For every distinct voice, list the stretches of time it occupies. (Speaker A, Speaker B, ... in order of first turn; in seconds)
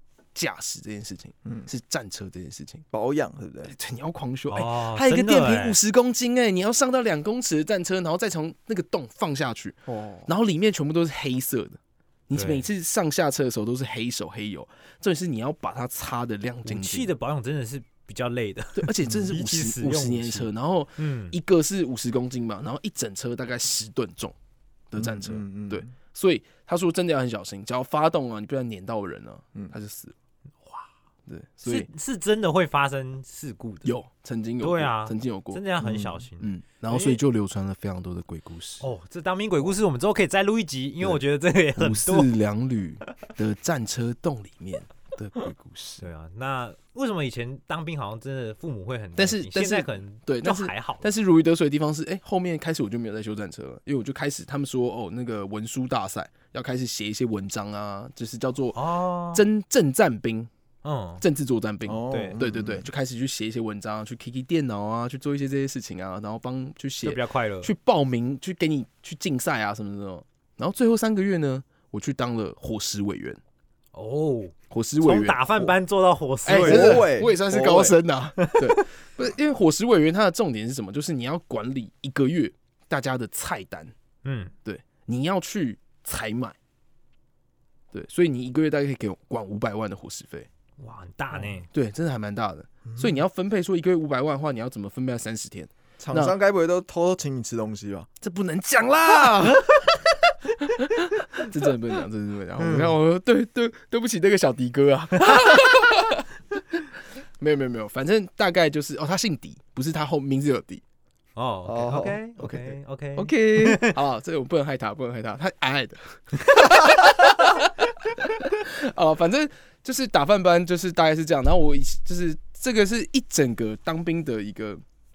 Speaker A: 0.3-2.8, 3.6-17.1, 18.8-24.4, 24.9-30.1, 31.3-31.9, 33.9-35.6, 36.4-38.9, 41.8-46.0, 49.2-60.5, 61.2-73.4, 74.7-75.8, 76.5-83.9, 84.7-86.6, 87.9-90.5, 91.7-96.3, 98.2-99.7, 100.6-106.2, 107.4-110.8, 112.4-124.8
Speaker B: 2.9-3.7, 9.9-10.3, 25.0-25.9, 35.8-36.2, 61.9-62.9, 76.5-78.0, 92.9-93.2, 96.0-98.1, 102.6-103.0, 111.7-112.2
Speaker C: 4.5-5.8, 12.3-12.7, 16.7-21.4, 31.6-34.0, 34.6-37.2, 38.8-42.3, 46.0-51.1, 58.8-59.5, 60.8-61.2, 62.1-62.4, 67.0-67.7, 73.9-77.1, 78.4-78.7, 84.2-84.5, 90.8-91.7, 111.4-114.0